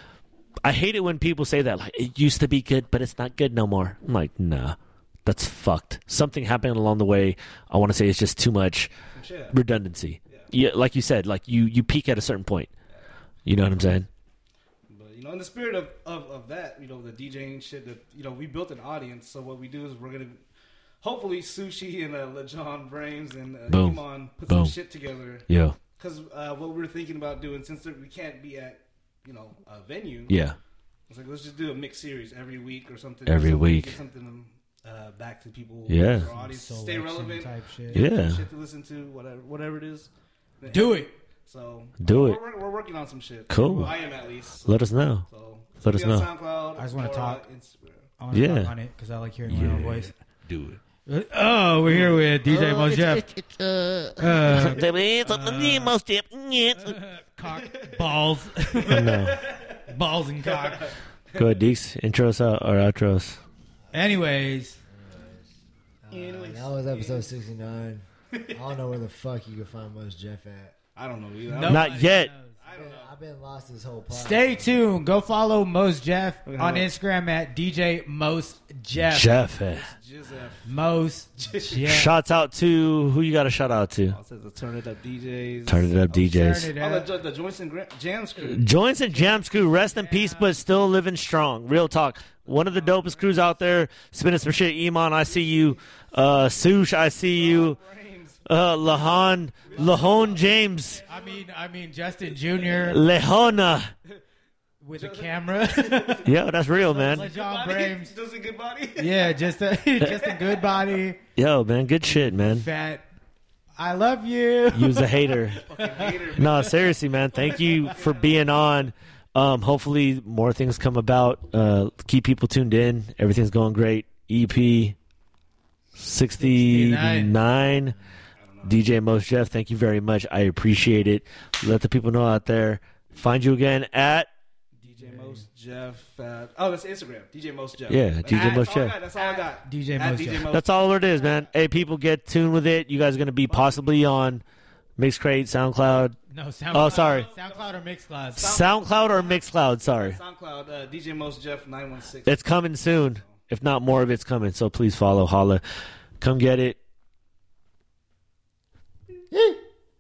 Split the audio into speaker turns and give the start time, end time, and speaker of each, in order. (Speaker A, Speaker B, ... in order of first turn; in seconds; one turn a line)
Speaker A: 0.6-8.9
Speaker B: 9.1-9.6
Speaker A: 9.5-12.7
Speaker A: 13.5-14.1
Speaker B: 14.9-20.4
Speaker B: 21.0-30.4
Speaker A: 23.7-24.7
Speaker A: 25.5-25.8
Speaker A: 30.3-30.6
Speaker B: 31.1-48.1
Speaker A: 33.3-33.9
Speaker A: 35.9-36.3
Speaker C: 36.3-38.0
Speaker A: 37.9-38.4
Speaker C: 40.7-41.1
Speaker A: 42.0-42.4
Speaker A: 43.5-44.0
Speaker C: 43.6-44.0
Speaker A: 44.6-45.3
Speaker A: 45.8-46.3
Speaker C: 46.8-47.4
Speaker C: 48.2-50.1
Speaker A: 48.3-48.7
Speaker A: 49.5-50.8
Speaker C: 51.1-53.3
Speaker A: 52.4-57.0
Speaker C: 54.2-55.9
Speaker C: 56.8-60.9
Speaker B: 57.5-58.2
Speaker B: 58.7-59.8
Speaker A: 58.9-59.4
Speaker B: 60.4-61.5
Speaker A: 61.4-63.4
Speaker C: 63.9-64.8
Speaker D: 64.9-65.5
Speaker D: 66.0-70.8
Speaker B: 66.1-67.3
Speaker B: 68.3-68.6
Speaker B: 71.0-71.9
Speaker C: 71.5-72.6
Speaker A: 71.6-72.3
Speaker B: 72.6-73.2
Speaker D: 72.7-74.8
Speaker C: 74.1-79.5
Speaker B: 76.5-76.9
Speaker A: 79.0-79.9
Speaker B: 79.6-80.7
Speaker C: 80.7-82.1
Speaker B: 81.4-81.8
Speaker A: 81.8-84.2
Speaker B: 84.1-86.1
Speaker A: 85.7-86.7
Speaker C: 86.1-87.1
Speaker B: 86.7-89.3
Speaker A: 88.4-97.8
Speaker C: 89.9-90.6
Speaker B: 92.5-93.6
Speaker B: 95.3-95.8
Speaker B: 96.8-101.5
Speaker A: 98.5-101.0
Speaker C: 99.7-100.3
Speaker C: 101.1-103.0
Speaker A: 102.8-103.9
Speaker C: 104.8-106.3
Speaker B: 105.0-109.3
Speaker A: 106.2-107.3
Speaker C: 107.1-108.1
Speaker C: 109.0-111.2
Speaker B: 110.0-111.0
Speaker A: 111.4-112.7
Speaker C: 112.1-113.1
Speaker C: 113.8-116.7
Speaker A: 114.7-115.6
Speaker B: 115.6-118.7
Speaker A: 116.3-125.0
Speaker A: 126.0-128.0
Speaker C: 126.4-127.3
Speaker B: 128.4-128.9
Speaker A: 128.6-134.3
Speaker B: 134.8-141.5
Speaker C: 134.9-135.5
Speaker A: 137.9-138.9
Speaker C: 138.3-140.5
Speaker A: 140.5-144.4
Speaker B: 143.5-144.2
Speaker A: 145.0-146.2
Speaker C: 146.3-148.5
Speaker A: 146.7-147.3
Speaker B: 146.8-147.8
Speaker B: 148.4-153.4
Speaker A: 148.4-150.2
Speaker A: 152.3-155.6
Speaker A: 156.2-156.8
Speaker D: 159.3-159.6